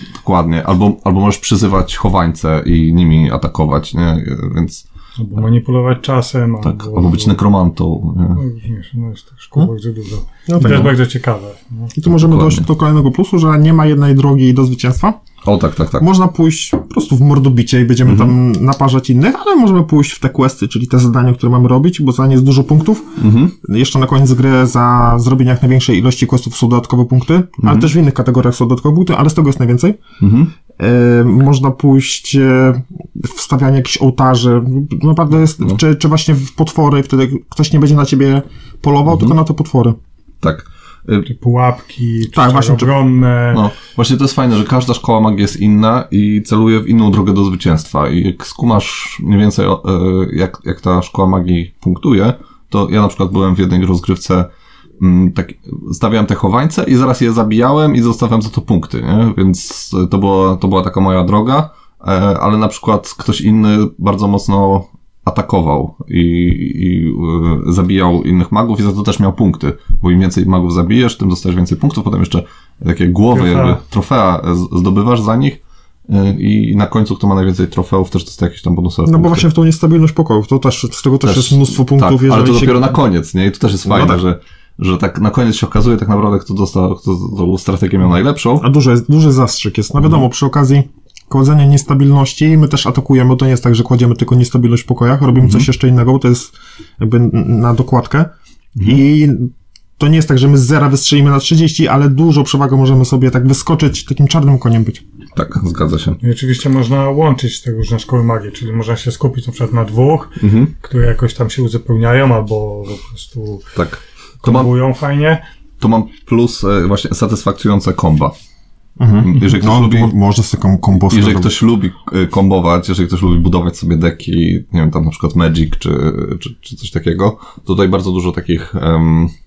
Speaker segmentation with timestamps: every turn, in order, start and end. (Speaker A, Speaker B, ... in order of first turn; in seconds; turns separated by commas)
Speaker A: 0.2-4.8, Speaker B: 5.2-7.4, Speaker A: 6.6-8.4, Speaker B: 8.4-11.9, Speaker C: 10.5-10.9, Speaker C: 12.0-15.2, Speaker A: 12.1-12.7, Speaker A: 15.4-16.1, Speaker C: 16.0-30.0, Speaker A: 18.0-18.3, Speaker A: 23.2-23.6, Speaker A: 27.6-27.9, Speaker A: 30.2-30.5, Speaker C: 30.8-40.0, Speaker A: 39.1-39.4, Speaker A: 40.4-41.3, Speaker B: 41.3-43.7, Speaker C: 42.3-42.9, Speaker A: 43.5-54.5, Speaker A: 55.0-79.5, Speaker B: 73.3-73.8, Speaker C: 79.1-83.0, Speaker A: 81.2-88.7, Speaker C: 83.9-84.2, Speaker C: 88.6-105.0, Speaker A: 95.4-95.7, Speaker A: 105.3-106.2, Speaker B: 106.2-113.7, Speaker A: 110.4-110.7, Speaker A: 113.8-114.7, Speaker B: 114.4-115.4, Speaker A: 115.8-118.3, Speaker C: 119.0-121.5, Speaker A: 119.2-120.1, Speaker A: 121.0-129.3